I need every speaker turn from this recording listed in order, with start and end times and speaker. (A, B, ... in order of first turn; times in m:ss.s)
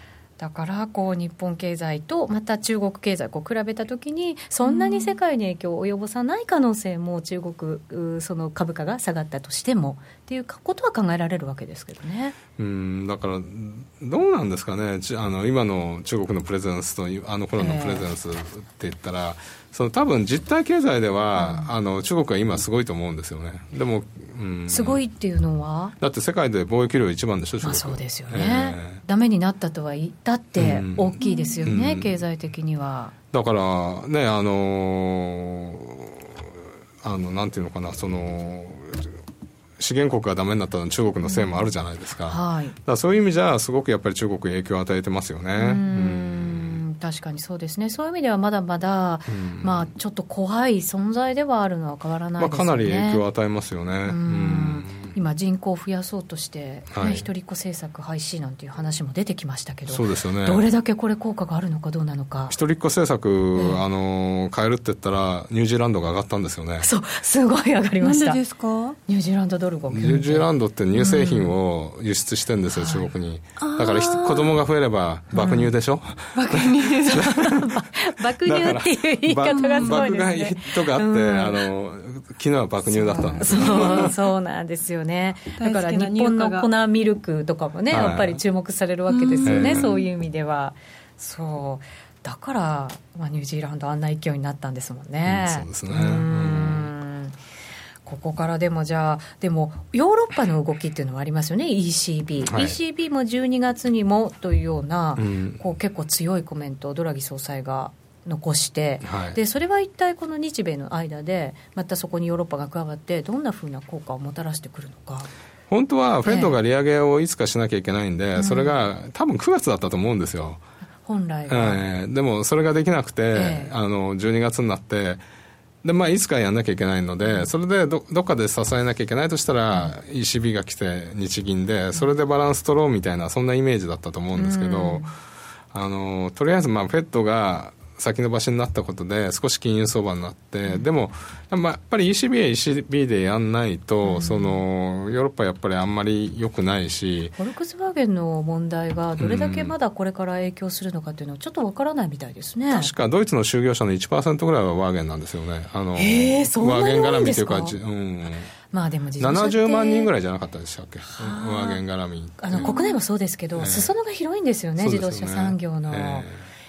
0:00.4-0:12.3 A
0:04.6-0:05.2 B
0:12.6-0:25.0 C
0:17.6-0:18.0 A
0:21.4-0:21.7 A
0:24.7-0:25.9 A
0:26.0-0:29.0 C
0:27.6-0:33.1 A
0:30.6-0:32.2 C
0:31.2-0:31.7 B
0:33.3-0:36.4 C
0:37.0-0:39.1 C
0:39.8-0:46.8 C
0:41.2-0:41.7 A
0:42.3-0:42.8 A
0:45.6-0:53.2 A
0:49.3-0:49.9 C
0:52.4-0:55.1 C
0:54.1-1:02.5 A
0:56.9-0:57.2 C
0:59.9-1:00.6 C
1:02.5-1:06.9 C
1:03.6-1:03.8 A
1:06.8-1:08.4 A
1:08.0-1:09.0 B
1:09.1-1:11.5 A
1:09.9-1:17.6 C
1:12.7-1:13.1 A
1:13.6-1:14.6 B
1:15.3-1:15.7 A
1:16.3-1:17.2 B
1:17.1-1:21.6 A
1:18.4-1:24.1 C
1:19.5-1:20.1 B
1:22.8-1:37.4 A
1:23.5-1:24.1 B
1:25.6-1:26.7 B
1:27.9-1:28.4 C
1:29.1-1:30.1 B
1:29.4-1:29.9 C
1:35.2-1:36.9 C
1:38.0-1:55.3 A
1:42.4-1:42.8 C
1:45.2-1:45.6 C
1:49.0-1:49.4 C
1:55.7-2:00.6 C
1:56.2-1:56.5 A
1:58.4-1:58.7 A
2:01.0-2:01.8 A
2:01.5-2:05.2 C
2:03.3-2:03.7 A
2:05.8-2:15.1 C
2:07.2-2:07.5 A
2:14.3-2:15.1 A
2:15.7-2:27.4 C
2:24.0-2:24.6 A
2:27.4-2:32.9 A
2:29.2-2:29.7 C
2:32.7-2:38.5 C
2:36.0-2:37.8 A
2:38.7-2:40.1 A
2:39.2-2:42.7 C
2:41.0-2:41.8 A
2:42.4-2:46.3 A
2:42.6-2:42.9 B
2:43.6-2:43.9 C
2:44.8-2:46.5 C